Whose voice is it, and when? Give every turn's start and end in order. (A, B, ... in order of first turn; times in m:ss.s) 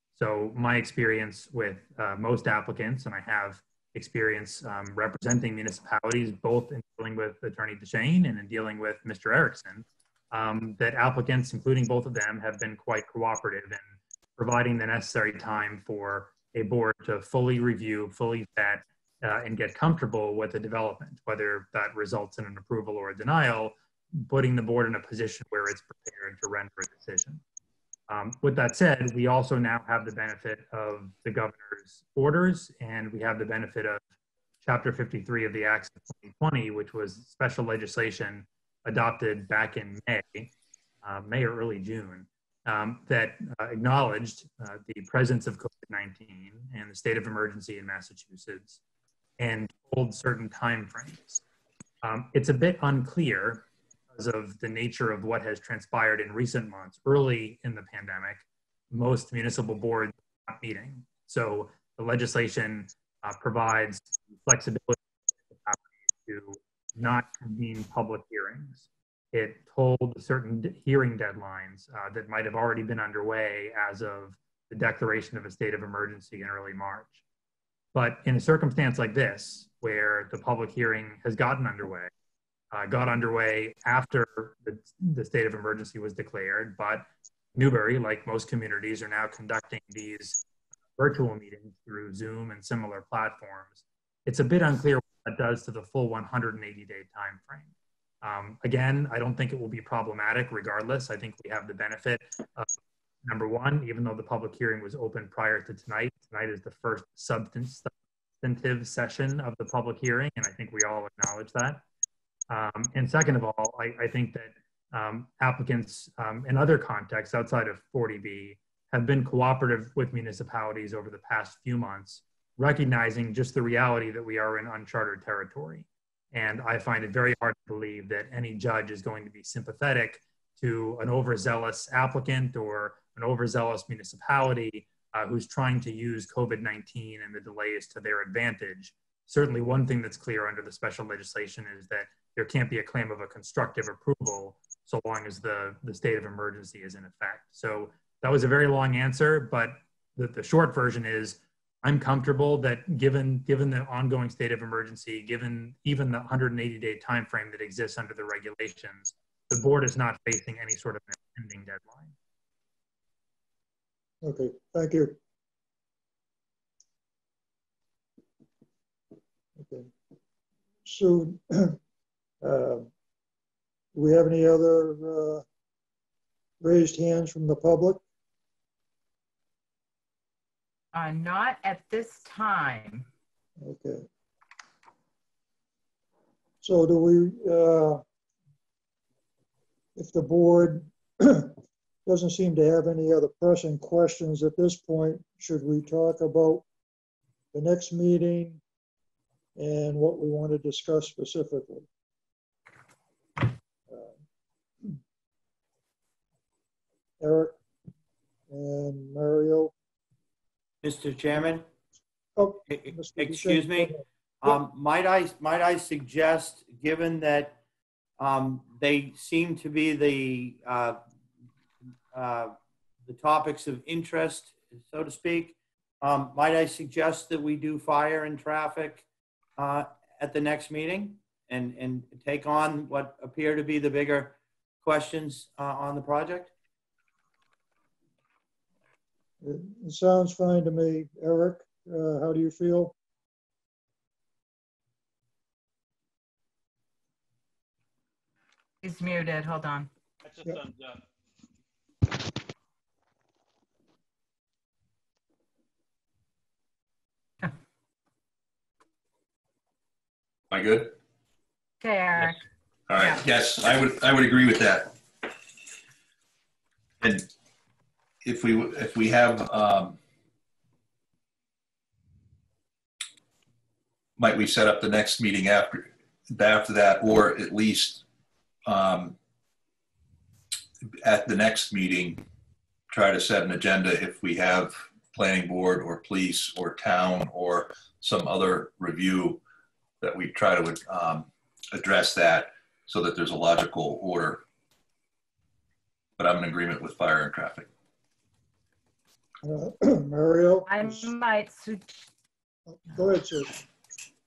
0:00.2-0:27.4 A
0:28.1-0:34.0 A
0:34.6-0:40.5 A
0:41.0-0:48.8 A
0:49.4-0:51.4 A
0:52.0-1:17.2 A
1:17.9-1:22.1 A
1:22.7-1:30.4 A
1:31.0-1:37.7 A
1:38.2-1:42.7 A
1:43.2-1:51.8 A
1:52.5-2:42.1 A
2:44.2-2:45.2 B
2:49.6-2:49.9 B
2:50.8-2:51.8 B
2:52.4-2:52.9 B
2:54.0-2:55.4 B
2:56.6-2:58.0 B
3:00.9-3:03.1 C
3:03.6-3:04.1 B
3:06.6-3:08.0 B
3:10.0-3:16.6 B
3:17.5-3:18.6 B
3:19.6-3:21.9 B
3:23.9-3:24.1 B
3:27.2-3:27.6 B
3:28.5-3:29.7 B
3:30.8-3:31.6 D
3:32.4-3:34.6 B
3:32.7-3:37.6 D
3:38.2-3:41.0 D
3:42.1-3:42.6 D
3:43.1-3:49.1 D
3:49.6-3:56.5 D
3:59.4-4:02.9 B
4:08.8-4:09.9 C
4:20.5-4:21.0 E
4:21.8-4:22.4 C
4:22.9-4:25.0 E
4:27.0-4:27.3 E
4:28.2-4:30.0 E
4:34.2-4:38.0 E
4:38.7-4:39.2 E
4:41.0-4:42.2 E
4:42.9-4:49.4 E
4:50.0-4:54.4 E
4:56.2-4:57.7 E
4:59.4-5:01.1 B
5:00.7-5:02.1 C
5:02.7-5:03.6 B